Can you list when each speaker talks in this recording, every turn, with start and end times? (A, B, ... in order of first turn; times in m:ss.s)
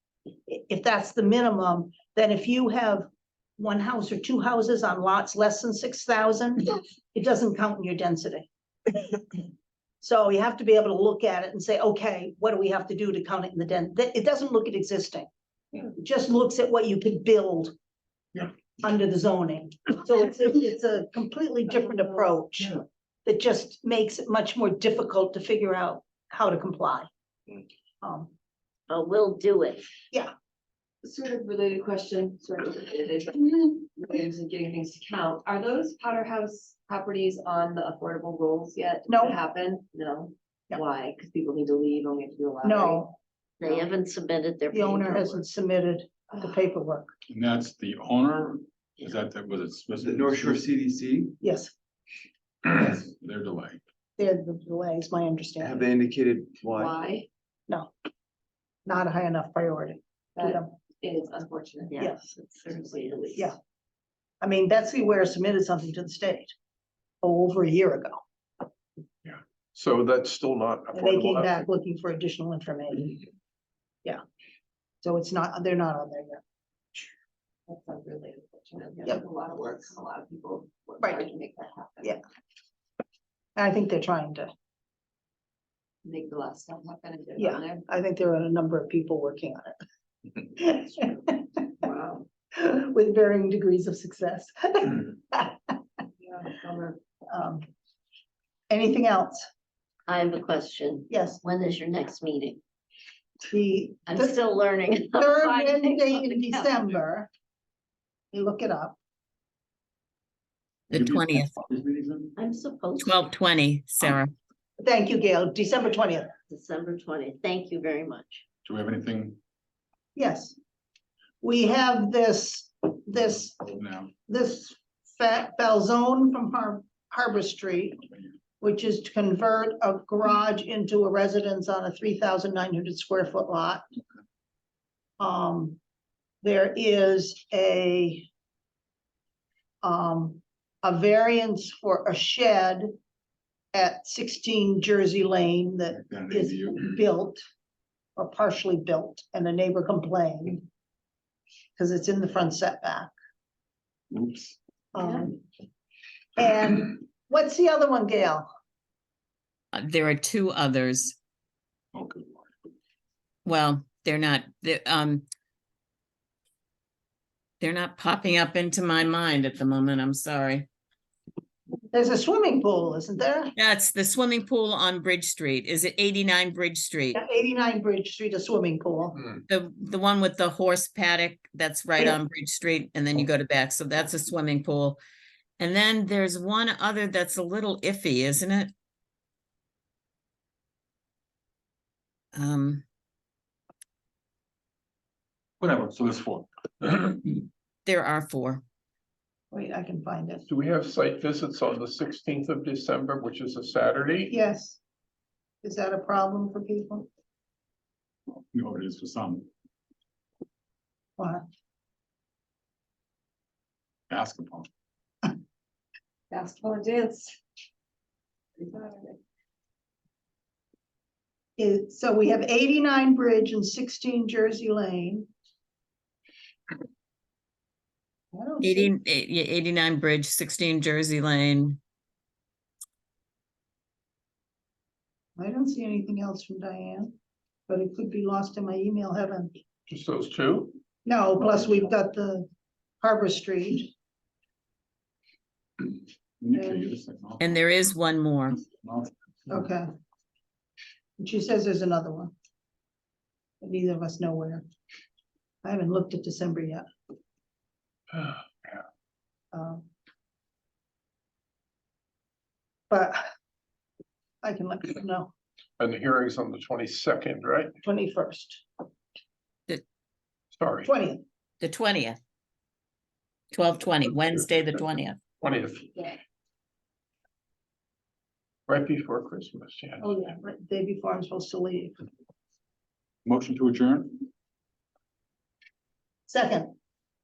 0:00.5-0:03.1 A
0:03.6-0:08.5 A
0:10.0-0:15.3 A
0:15.9-0:17.7 A
0:18.4-0:27.1 A
0:21.8-0:22.3 B
0:28.0-0:28.3 A
0:28.9-0:29.9 C
0:31.0-0:43.1 B
0:39.1-0:39.4 A
0:42.6-0:43.1 A
0:43.6-0:45.4 C
0:44.7-0:47.1 A
0:47.3-0:50.7 D
0:50.0-0:51.4 E
0:51.4-0:51.7 A
0:52.6-0:53.8 D
0:54.2-0:55.8 A
0:55.6-0:57.0 E
0:56.7-0:57.3 B
0:58.9-1:00.7 A
1:00.4-1:03.4 B
1:01.9-1:03.5 C
1:02.0-1:02.3 A
1:04.4-1:06.5 A
1:07.2-1:08.2 A
1:09.2-1:11.6 F
1:11.0-1:13.2 A
1:15.0-1:16.4 A
1:17.7-1:22.2 B
1:23.6-1:24.5 A
1:26.0-1:27.8 B
1:27.4-1:29.8 A
1:30.4-1:31.7 A
1:31.8-1:32.3 B
1:32.5-1:35.8 A
1:36.2-1:37.0 B
1:37.3-1:37.7 A
1:38.7-1:39.4 A
1:40.1-1:42.6 C
1:41.1-1:41.4 A
1:43.5-1:44.4 A
1:44.1-1:46.9 C
1:45.2-1:47.3 A
1:48.3-1:49.0 A
1:50.9-1:51.5 G
1:50.9-1:52.3 D
1:52.4-1:53.3 C
1:53.0-1:54.3 G
1:54.8-1:56.4 A
1:56.5-1:58.4 C
1:58.6-1:59.4 D
2:00.2-2:00.6 A
2:01.4-2:03.6 A
2:03.2-2:04.1 D
2:04.3-2:08.0 A
2:08.6-2:13.8 A
2:15.2-2:15.8 A
2:16.4-2:18.3 A
2:19.8-2:22.9 A
2:23.7-2:27.4 A
2:26.0-2:27.0 D
2:28.2-2:30.6 A
2:31.8-2:33.1 A
2:34.1-2:34.6 D
2:34.9-2:35.4 A
2:36.4-2:38.5 A
2:39.7-2:41.2 G
2:41.9-2:42.4 D
2:43.4-2:45.3 G
2:47.6-2:50.7 G
2:51.9-2:53.5 A
2:53.6-2:57.2 G
2:57.2-2:59.2 A
2:59.5-3:05.0 G
3:05.6-3:08.7 G
3:12.3-3:12.8 G
3:15.6-3:17.4 D
3:17.8-3:18.6 G
3:19.5-3:20.5 A
3:20.5-3:24.3 F
3:24.3-3:24.8 A
3:25.6-3:27.1 A
3:28.3-3:29.5 D
3:31.2-3:31.4 A
3:34.1-3:34.7 D
3:36.3-3:37.4 B
3:38.6-3:39.2 B
3:41.6-3:45.3 A
3:48.3-3:48.9 A
3:48.6-3:51.8 G
3:55.4-3:57.1 A
3:57.7-3:59.5 A
3:59.9-4:00.8 F
4:01.0-4:02.5 A
4:03.0-4:03.9 A
4:06.4-4:07.6 D
4:06.5-4:06.9 A
4:07.4-4:08.6 G
4:08.6-4:09.1 D
4:09.5-4:09.9 A
4:11.2-4:12.3 A
4:13.6-4:14.6 A
4:15.6-4:16.8 A
4:19.5-4:19.9 A
4:22.9-4:23.2 A
4:24.4-4:25.3 A
4:25.8-4:27.7 F
4:27.8-4:28.6 A
4:30.6-4:30.9 F
4:30.8-4:31.2 A
4:31.6-4:32.2 G
4:33.5-4:35.2 G
4:35.4-4:36.0 F
4:38.7-4:40.1 F
4:40.0-4:42.0 A
4:43.2-4:44.2 D
4:46.3-4:46.7 A